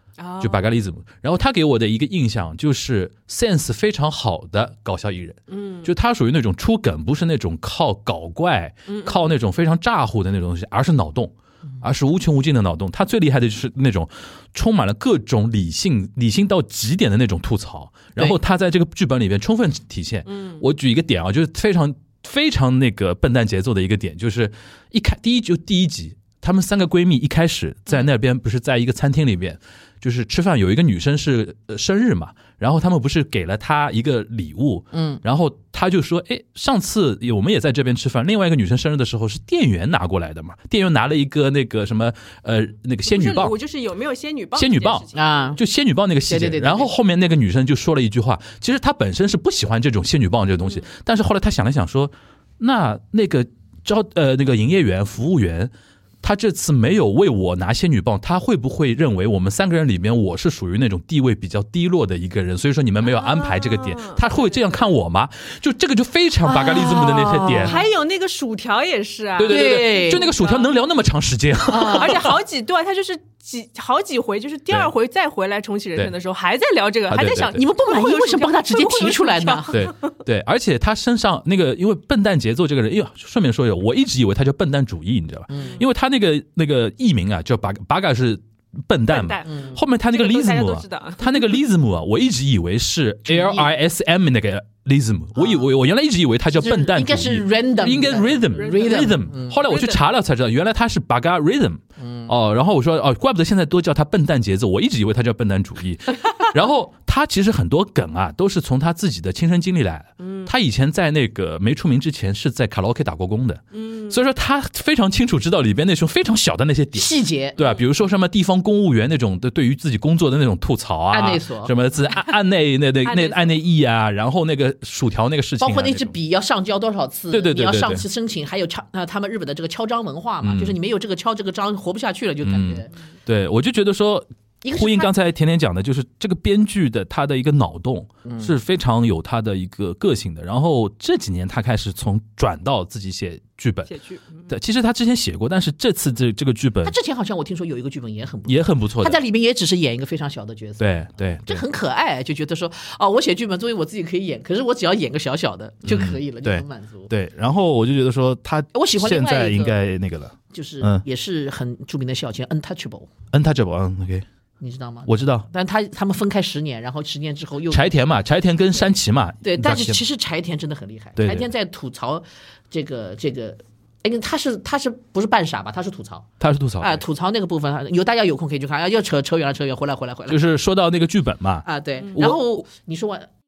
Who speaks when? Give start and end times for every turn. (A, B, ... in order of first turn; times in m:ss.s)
0:00.2-0:00.7 A
0:00.4-0:43.6 B
0:05.5-0:05.9 A
0:08.9-0:09.2 A
0:20.2-0:20.6 A
0:34.9-0:35.2 C
0:43.0-0:45.5 A
0:44.6-1:07.8 B
0:45.1-0:45.6 C
0:46.2-0:46.9 C
1:03.1-1:04.8 A
1:06.5-1:07.8 C
1:07.5-1:10.7 A
1:09.4-1:12.3 B
1:09.4-1:10.3 C
1:11.7-1:12.2 C
1:11.8-1:20.1 A
1:17.1-1:17.6 B
1:17.4-1:19.8 C
1:19.7-2:06.1 B
1:25.5-1:25.8 C
1:29.1-1:31.5 A
1:29.4-1:29.8 C
1:33.3-1:33.7 C
1:35.4-1:35.7 C
1:36.5-1:39.6 C
1:38.5-1:40.0 A
1:42.0-1:42.3 C
1:50.2-1:50.5 A
1:53.7-1:54.2 A
1:56.9-1:57.6 C
2:01.1-2:01.7 C
2:03.0-2:03.5 A
2:05.6-2:12.9 C
2:07.3-2:08.0 B
2:10.4-2:10.8 B
2:12.4-2:23.9 B
2:14.6-2:15.1 C
2:18.2-2:18.5 C
2:23.9-2:24.5 A
2:24.5-2:27.0 B
2:26.8-2:37.1 C
2:28.5-2:29.2 B
2:30.8-2:31.6 B
2:35.8-2:41.0 B
2:38.7-2:39.8 C
2:40.5-2:43.1 C
2:43.3-2:44.2 B
2:44.6-2:47.9 C
2:45.0-2:45.5 B
2:47.7-2:50.0 B
2:49.4-2:56.3 C
2:51.2-2:51.5 B
2:56.4-2:57.0 B
2:56.8-3:00.4 C
3:00.3-3:02.6 B
3:01.6-3:03.3 C